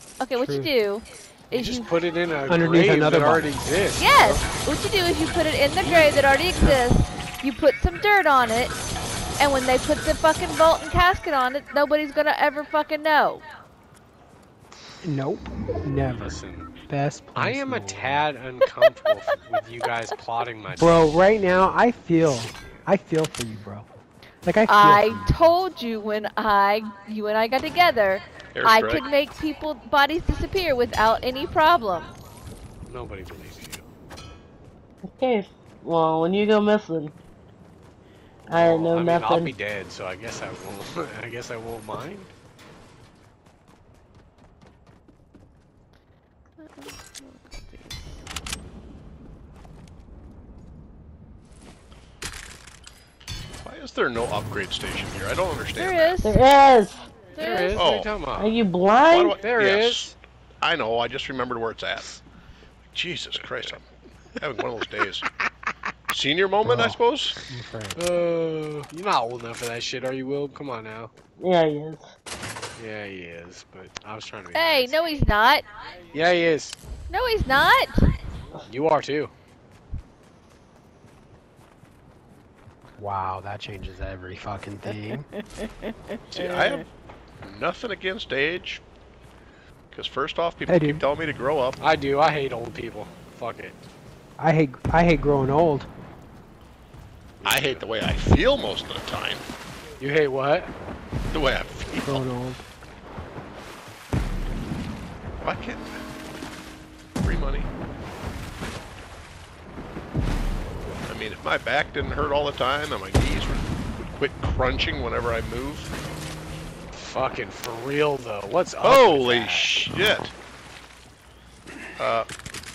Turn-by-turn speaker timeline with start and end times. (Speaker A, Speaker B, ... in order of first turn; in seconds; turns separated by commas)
Speaker A: 0.2-1.9, Speaker B: 0.4-0.7, Speaker C: 1.5-4.5, Speaker B: 2.5-3.5, Speaker A: 4.0-8.8, Speaker A: 9.4-13.4, Speaker B: 15.0-16.3, Speaker C: 16.1-16.7, Speaker B: 16.9-18.3, Speaker C: 17.4-21.1, Speaker B: 20.8-23.9, Speaker C: 22.6-22.8, Speaker B: 24.4-25.5, Speaker A: 24.7-32.1, Speaker D: 28.6-29.0, Speaker C: 32.9-33.9, Speaker E: 35.1-37.1, Speaker E: 38.5-39.5, Speaker C: 38.5-42.3, Speaker A: 46.6-48.2, Speaker D: 53.6-56.2, Speaker A: 55.8-56.4, Speaker E: 56.2-57.1, Speaker C: 57.3-58.6, Speaker A: 57.4-57.8, Speaker D: 57.8-58.1, Speaker E: 58.3-59.4, Speaker D: 59.1-62.1, Speaker C: 59.4-60.2, Speaker D: 62.9-63.8, Speaker C: 63.4-63.8, Speaker D: 64.4-65.2, Speaker C: 64.6-65.0, Speaker D: 66.1-67.4, Speaker B: 66.6-68.0, Speaker C: 68.0-71.1, Speaker E: 71.4-72.1, Speaker C: 72.8-75.0, Speaker A: 74.5-75.7, Speaker C: 76.1-76.8, Speaker A: 77.1-78.1, Speaker C: 78.7-79.3, Speaker B: 83.0-85.3, Speaker A: 85.5-86.8, Speaker D: 86.3-86.9, Speaker D: 87.4-88.8, Speaker D: 89.9-91.8, Speaker B: 90.7-91.0, Speaker C: 91.8-93.8, Speaker B: 94.4-95.9, Speaker C: 97.4-97.9, Speaker D: 97.5-99.4, Speaker C: 100.0-100.7, Speaker D: 101.3-102.3, Speaker B: 102.0-102.7, Speaker D: 105.4-106.0, Speaker D: 107.2-107.7, Speaker D: 111.1-115.9, Speaker C: 116.9-119.8, Speaker D: 118.8-120.3, Speaker D: 122.0-122.3